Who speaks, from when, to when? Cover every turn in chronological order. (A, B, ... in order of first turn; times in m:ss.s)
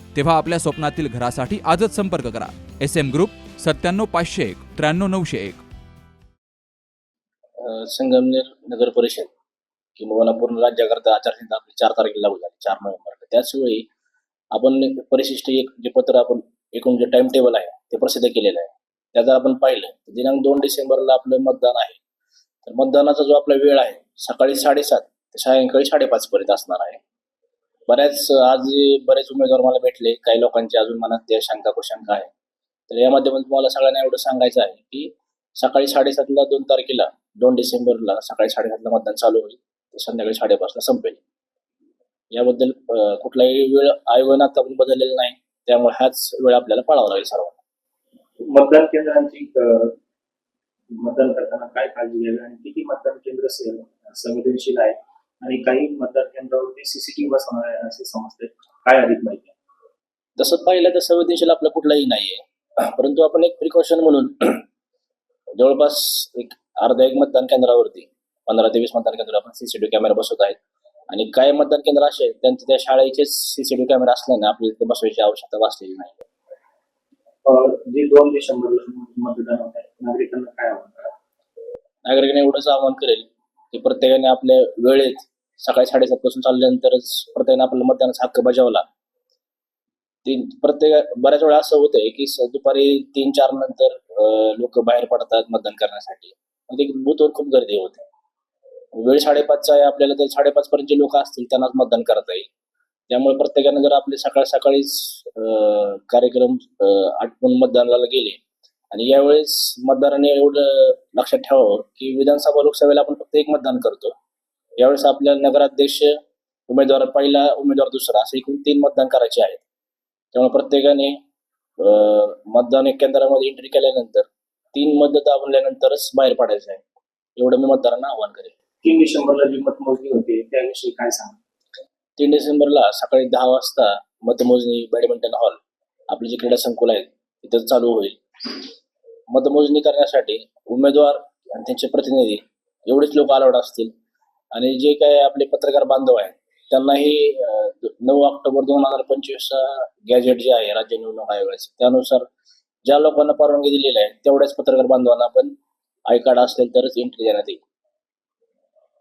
0:00.2-0:05.6 A
0:07.6-0:09.3 B
0:10.0-0:13.8 B
0:14.6-0:22.0 B
0:22.6-0:27.0 B
0:27.9-0:32.3 B
0:32.9-0:41.2 B
0:42.3-0:47.6 B
0:48.4-0:49.9 C
0:51.0-0:59.5 C
1:00.4-1:04.6 B
1:05.6-1:10.6 B
1:11.1-1:16.2 B
1:17.4-1:21.1 C
1:22.0-1:28.8 B
1:30.2-1:38.0 B
1:39.0-1:42.4 B
1:43.1-1:48.4 B
1:48.9-1:54.1 B
1:54.8-1:56.1 B
1:56.7-1:59.6 B
2:00.3-2:01.1 B
2:01.8-2:06.8 B
2:07.4-2:08.5 B
2:08.8-2:11.4 C
2:12.2-2:15.6 B
2:16.1-2:18.6 B
2:19.3-2:23.9 B
2:24.6-2:32.2 B
2:32.8-2:35.5 B
2:36.1-2:37.6 B